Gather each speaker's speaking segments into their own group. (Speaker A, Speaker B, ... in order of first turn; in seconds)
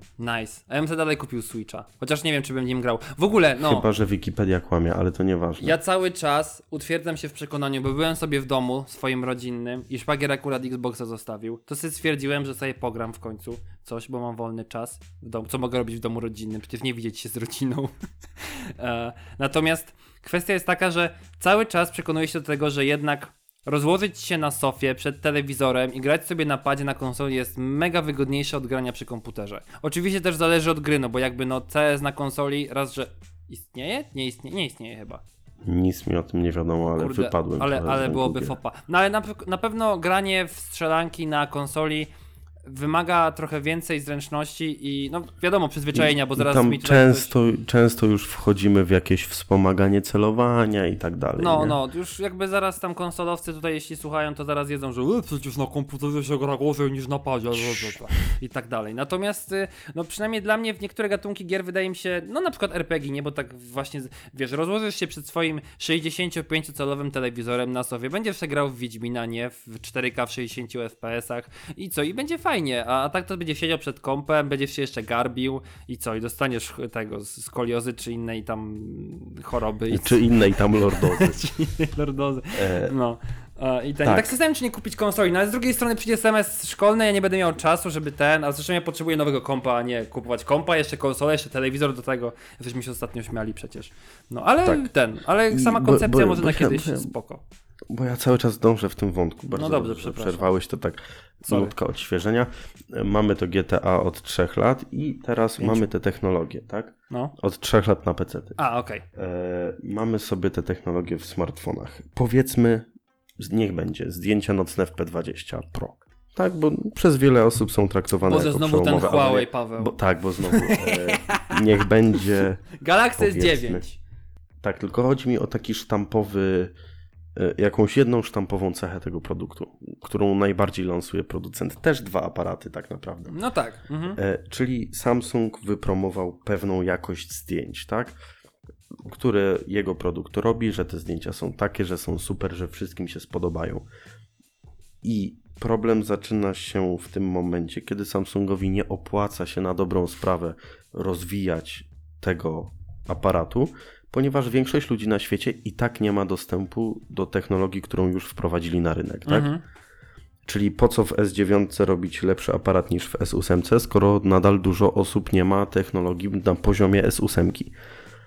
Speaker A: 0.2-3.9, 5.6-35.2, 37.0-42.1, 42.6-47.3, 51.4-97.4, 99.5-100.5, 101.5-101.7, 105.6-105.9, 108.6-109.0, 118.3-119.9, 120.5-121.5, 122.8-124.0, 133.3-134.2, 159.3-159.6
Speaker B: 3.6-5.8, 35.6-38.6, 45.9-51.8, 57.5-58.1, 79.9-81.4, 82.5-82.9, 84.0-84.3, 94.6-94.9, 95.5-97.1, 97.9-108.6, 109.1-112.9, 113.4-122.6, 123.2-123.8, 124.6-126.7, 127.4-133.4, 134.2-138.2, 139.0-143.9, 145.0-159.5, 160.4-167.7